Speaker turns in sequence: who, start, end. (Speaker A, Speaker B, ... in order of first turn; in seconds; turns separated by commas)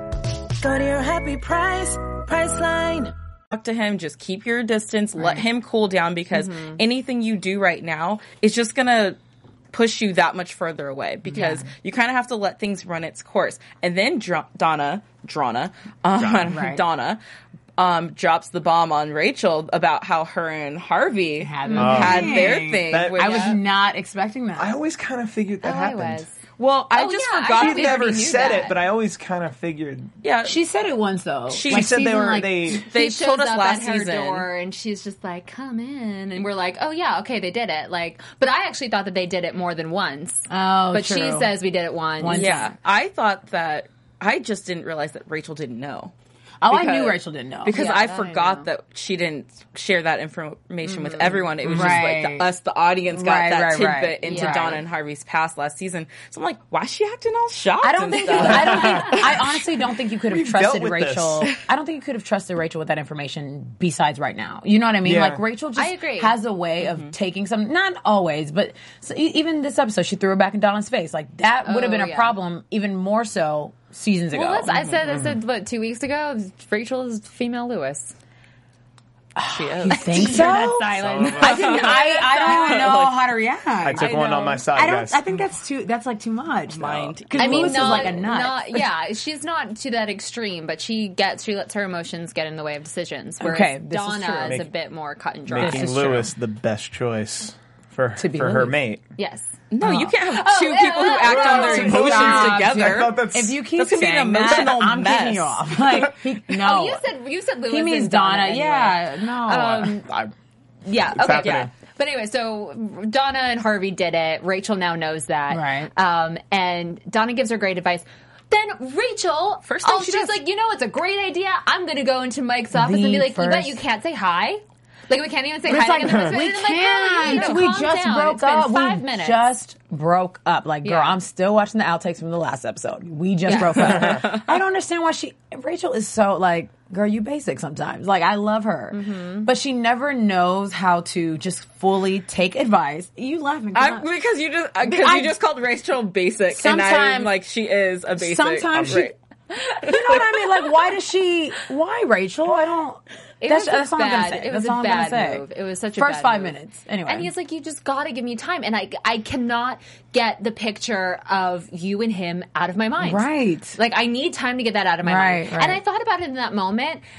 Speaker A: 0.6-3.1, Speaker B: 3.5-9.2, Speaker C: 6.3-6.8, Speaker B: 9.7-17.2, Speaker D: 11.3-11.6, Speaker C: 11.3-11.6, Speaker E: 16.2-16.5, Speaker D: 16.4-16.8, Speaker B: 17.8-23.6, Speaker D: 21.4-24.8, Speaker C: 21.6-22.4, Speaker E: 21.8-23.5, Speaker E: 24.6-26.2, Speaker C: 25.6-26.4, Speaker B: 26.6-28.7, Speaker C: 26.9-28.8, Speaker E: 27.6-30.1, Speaker B: 30.2-30.6, Speaker D: 30.4-32.8, Speaker B: 31.5-31.9, Speaker E: 31.7-32.9, Speaker B: 32.7-34.5, Speaker C: 32.8-42.6, Speaker D: 40.5-41.6, Speaker D: 42.1-42.7, Speaker B: 42.3-46.1, Speaker D: 46.6-47.8, Speaker B: 46.7-59.6, Speaker C: 47.7-48.7, Speaker C: 50.8-51.4, Speaker E: 51.6-52.0, Speaker D: 51.6-52.5, Speaker D: 53.1-54.8, Speaker C: 54.2-54.7, Speaker D: 57.8-74.7, Speaker E: 58.4-59.2, Speaker C: 58.6-59.2, Speaker E: 60.3-61.5, Speaker E: 65.0-65.4, Speaker C: 65.8-66.4, Speaker B: 66.8-67.1, Speaker C: 71.6-72.4, Speaker C: 74.3-78.1, Speaker B: 74.7-75.0, Speaker E: 75.1-75.3, Speaker D: 79.3-88.8, Speaker B: 79.4-80.7, Speaker C: 79.9-83.0, Speaker E: 80.9-81.7, Speaker B: 81.4-83.2, Speaker E: 83.8-85.2, Speaker C: 84.0-84.6, Speaker B: 86.7-88.2, Speaker C: 87.3-96.0, Speaker D: 93.4-94.6, Speaker E: 95.5-99.0, Speaker D: 95.6-96.3, Speaker D: 98.2-98.8, Speaker C: 99.2-99.5, Speaker B: 99.7-105.6, Speaker D: 99.8-100.1, Speaker C: 100.2-102.2, Speaker E: 101.2-103.6, Speaker D: 101.5-107.0, Speaker C: 106.6-110.1, Speaker D: 107.7-110.0, Speaker E: 110.0-110.3, Speaker C: 110.8-129.4, Speaker E: 111.1-111.7, Speaker B: 111.3-111.7, Speaker D: 115.5-115.9, Speaker B: 119.6-120.4, Speaker D: 122.7-123.8, Speaker D: 125.6-144.1, Speaker E: 126.1-126.3, Speaker B: 127.2-127.6, Speaker C: 130.8-131.2, Speaker C: 133.4-134.1, Speaker B: 133.6-134.5, Speaker C: 138.9-139.5, Speaker B: 143.7-149.1, Speaker D: 144.8-145.3, Speaker D: 146.5-147.3, Speaker D: 148.1-149.1, Speaker E: 148.7-149.0, Speaker D: 149.8-155.4, Speaker B: 149.8-150.7, Speaker C: 153.4-156.5, Speaker D: 155.9-157.3, Speaker C: 157.1-167.0, Speaker D: 163.0-163.8, Speaker D: 165.0-165.8